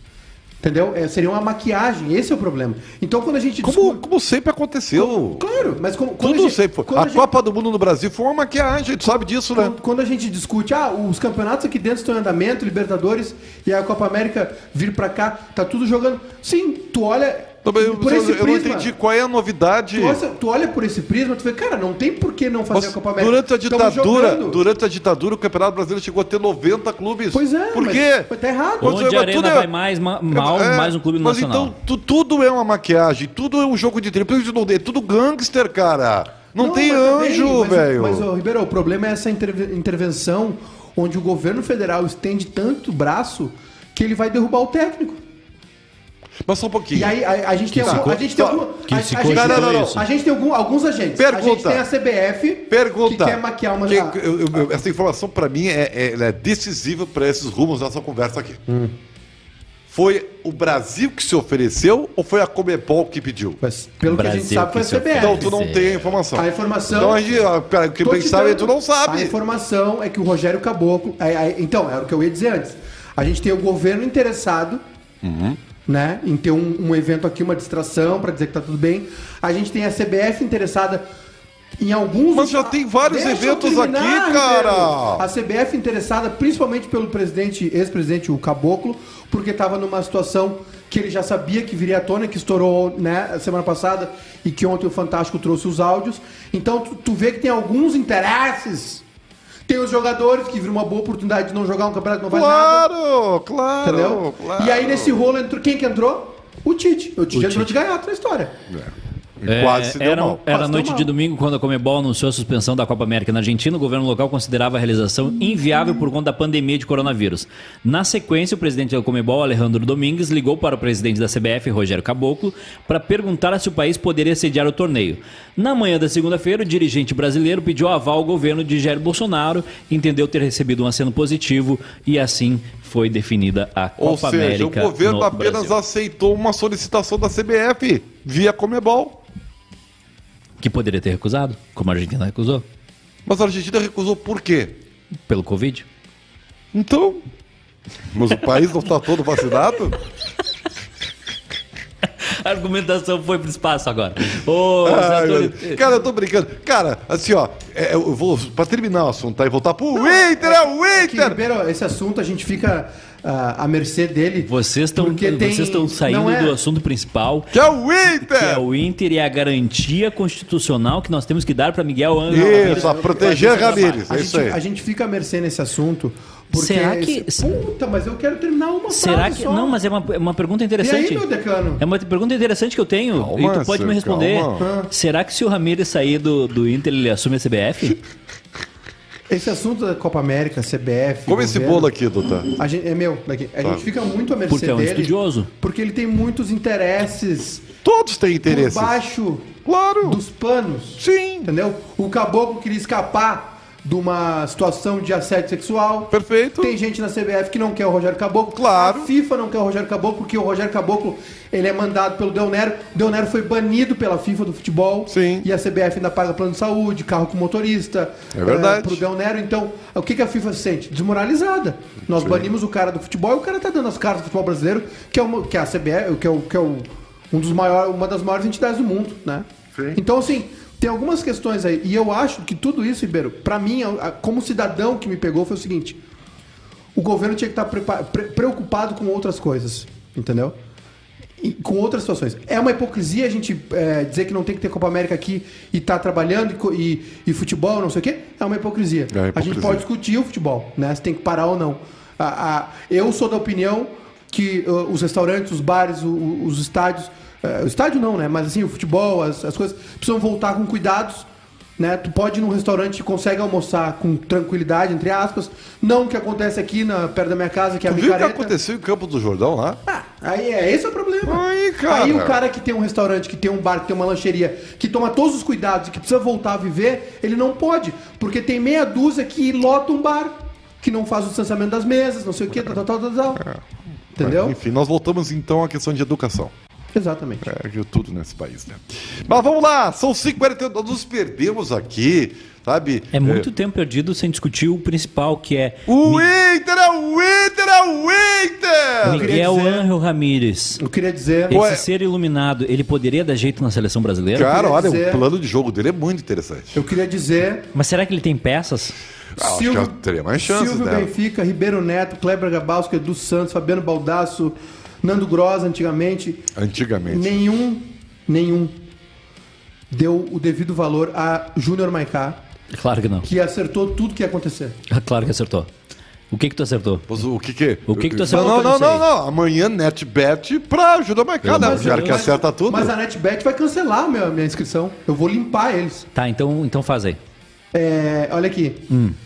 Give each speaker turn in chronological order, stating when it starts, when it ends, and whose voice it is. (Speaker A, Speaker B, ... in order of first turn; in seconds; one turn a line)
Speaker A: 0.6-4.0
Speaker B: 3.6-9.8
Speaker A: 4.9-7.3
Speaker A: 9.5-18.9
Speaker B: 17.6-20.2
Speaker A: 19.9-24.6
Speaker B: 22.7-29.7
Speaker A: 27.3-29.0
Speaker C: 28.8-31.7
Speaker B: 30.3-38.3
Speaker A: 36.5-45.2
Speaker B: 46.4-47.1
Speaker A: 46.9-54.2
Speaker C: 47.7-48.2
Speaker B: 47.8-48.6
Speaker C: 48.8-50.0
Speaker B: 49.2-50.0
Speaker B: 51.1-51.8
Speaker B: 52.7-58.6
Speaker A: 58.7-58.9
Speaker B: 59.9-63.6
Speaker A: 63.6-65.5
Speaker C: 64.0-66.1
Speaker B: 65.2-69.3
Speaker A: 66.3-67.2
Speaker A: 68.0-74.8
Speaker B: 75.2-75.6
Speaker A: 75.8-81.0
Speaker A: 81.8-99.0
Speaker B: 82.3-85.2
Speaker A: 99.7-102.9
Speaker B: 102.3-105.2
Speaker A: 103.8-108.5
Speaker C: 107.3-107.7
Speaker B: 108.7-110.4
Speaker C: 109.5-135.7
Speaker A: 110.5-111.1
Speaker B: 134.0-139.2
Speaker C: 140.6-142.6
Speaker B: 143.2-144.8
Speaker C: 145.3-145.8
Speaker B: 146.7-147.2
Speaker B: 148.1-150.0
Speaker C: 152.2-155.8
Speaker B: 154.8-161.4
Speaker A: 159.9-166.6
Speaker C: 164.4-167.5
Speaker B: 167.5-168.6
Speaker C: 168.2-174.1
Speaker A: 172.3-179.8
Speaker B: 172.3-174.6
Speaker C: 176.5-177.5
Speaker C: 178.9-181.2
Speaker A: 180.8-181.8
Speaker C: 181.8-188.0
Speaker B: 183.1-184.7
Speaker A: 184.6-184.9
Speaker A: 189.3-191.9
Speaker B: 191.2-192.6
Speaker A: 192.6-197.7
Speaker B: 193.6-193.9
Speaker C: 194.5-195.5
Speaker B: 197.8-199.0
Speaker A: 198.5-236.0
Speaker B: 199.6-200.2
Speaker B: 201.0-201.5
Speaker B: 206.1-206.8
Speaker B: 208.5-209.1
Speaker B: 215.1-215.5
Speaker B: 218.3-219.0
Speaker B: 222.1-222.5
Speaker B: 229.7-230.0
Speaker A: 236.9-240.6
Speaker A: 241.4-261.3
Speaker B: 249.1-249.8
Speaker A: 261.8-268.5
Speaker B: 267.8-269.8
Speaker A: 269.9-283.4
Speaker B: 271.2-272.4
Speaker B: 283.4-283.6
Speaker A: 284.1-284.6
Speaker B: 284.2-286.5
Speaker A: 286.9-287.5
Speaker B: 287.4-293.5
Speaker C: 293.1-296.3
Speaker B: 295.9-299.4
Speaker A: 299.0-299.9
Speaker C: 299.0-300.8
Speaker A: 300.8-301.6
Speaker C: 301.5-304.5
Speaker B: 301.5-301.9
Speaker B: 304.3-306.8
Speaker A: 304.4-305.2
Speaker A: 306.7-307.7
Speaker C: 307.7-308.9
Speaker B: 309.4-311.1
Speaker A: 309.4-316.5
Speaker B: 316.5-317.4
Speaker A: 317.1-318.8
Speaker A: 319.9-322.4
Speaker C: 322.7-323.3
Speaker A: 323.2-324.8
Speaker C: 324.9-325.7
Speaker C: 326.3-327.1
Speaker B: 327.1-332.9
Speaker C: 327.9-329.1
Speaker C: 331.4-332.3
Speaker A: 331.6-336.1
Speaker C: 336.1-337.2
Speaker A: 337.7-338.9
Speaker C: 338.9-339.1